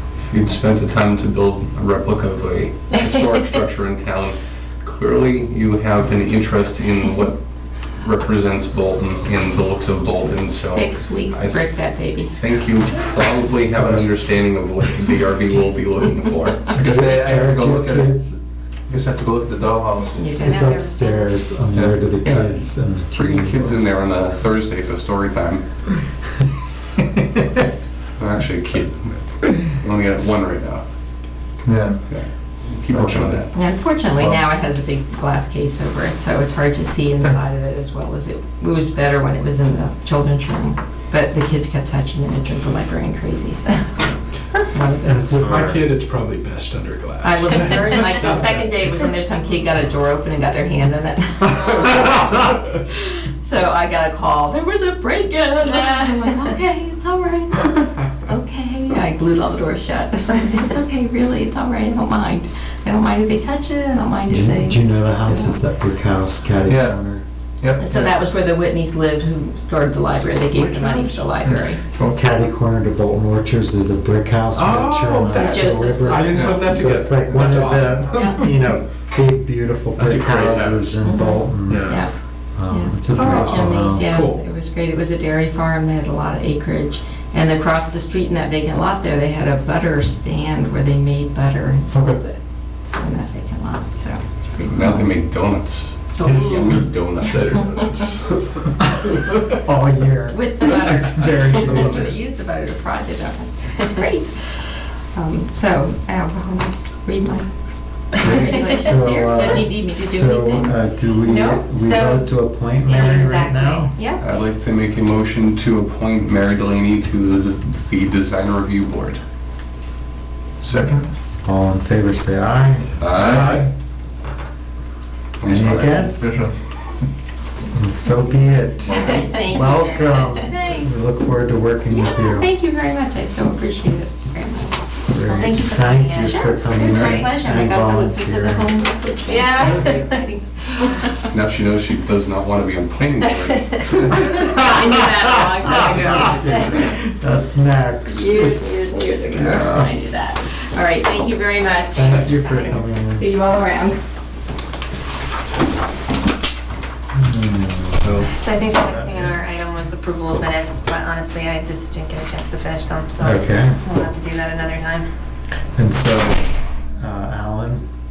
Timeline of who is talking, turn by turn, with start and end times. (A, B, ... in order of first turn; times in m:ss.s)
0:00.2-0:11.8 A
0:10.4-0:12.3 B
0:12.3-0:16.9 A
0:16.7-0:18.1 C
0:16.8-0:18.4 D
0:18.9-0:20.3 C
0:20.1-0:20.8 B
0:20.4-0:24.0 D
0:20.4-0:21.3 E
0:21.7-0:22.0 C
0:22.2-0:25.6 A
0:28.2-0:30.8 A
0:31.6-0:32.0 C
0:32.0-0:33.5 A
0:32.9-0:33.4 C
0:33.5-0:43.9 B
0:44.7-0:45.9 D
0:45.2-0:48.7 F
0:47.2-1:05.6 B
1:04.3-1:07.2 D
1:06.7-1:07.0 C
1:07.6-1:08.1 C
1:07.8-1:11.8 B
1:10.5-1:11.4 F
1:11.4-1:12.2 C
1:12.1-1:24.2 D
1:14.5-1:18.5 F
1:15.3-1:16.7 B
1:18.1-1:18.5 B
1:20.0-1:22.0 F
1:21.1-1:22.1 B
1:22.7-1:32.4 B
1:23.1-1:24.4 F
1:31.9-1:32.2 D
1:32.9-1:35.1 B
1:34.7-1:38.0 A
1:36.2-1:36.9 B
1:36.2-1:36.9 F
1:37.5-1:37.7 F
1:39.5-1:42.2 D
1:40.3-1:47.5 B
1:48.1-1:50.7 B
1:48.2-1:53.9 D
1:48.3-1:48.9 E
1:51.3-1:52.3 E
1:52.8-1:53.9 E
1:54.2-1:59.2 A
2:00.6-2:01.1 C
2:01.4-2:03.3 D
2:03.0-2:03.6 A
2:03.1-2:03.6 C
2:03.3-2:03.6 F
2:05.4-2:06.1 A
2:05.4-2:06.4 D
2:05.9-2:06.7 C
2:07.7-2:12.5 D
2:08.9-2:10.3 B
2:09.1-2:10.9 E
2:12.0-2:14.8 B
2:15.1-2:18.8 D
2:15.2-2:17.8 E
2:16.2-2:20.3 B
2:19.2-2:21.0 E
2:21.3-2:24.4 A
2:24.1-2:26.8 B
2:25.6-2:28.9 D
2:25.7-2:26.7 A
2:28.1-2:32.3 B
2:29.3-2:29.9 A
2:29.5-2:29.8 D
2:31.9-2:33.3 D
2:32.1-2:32.7 E
2:33.0-2:34.0 B
2:37.1-2:38.3 D
2:38.0-2:38.3 A
2:38.3-2:45.1 E
2:38.8-2:39.3 D
2:43.2-2:43.8 D
2:45.7-2:47.8 D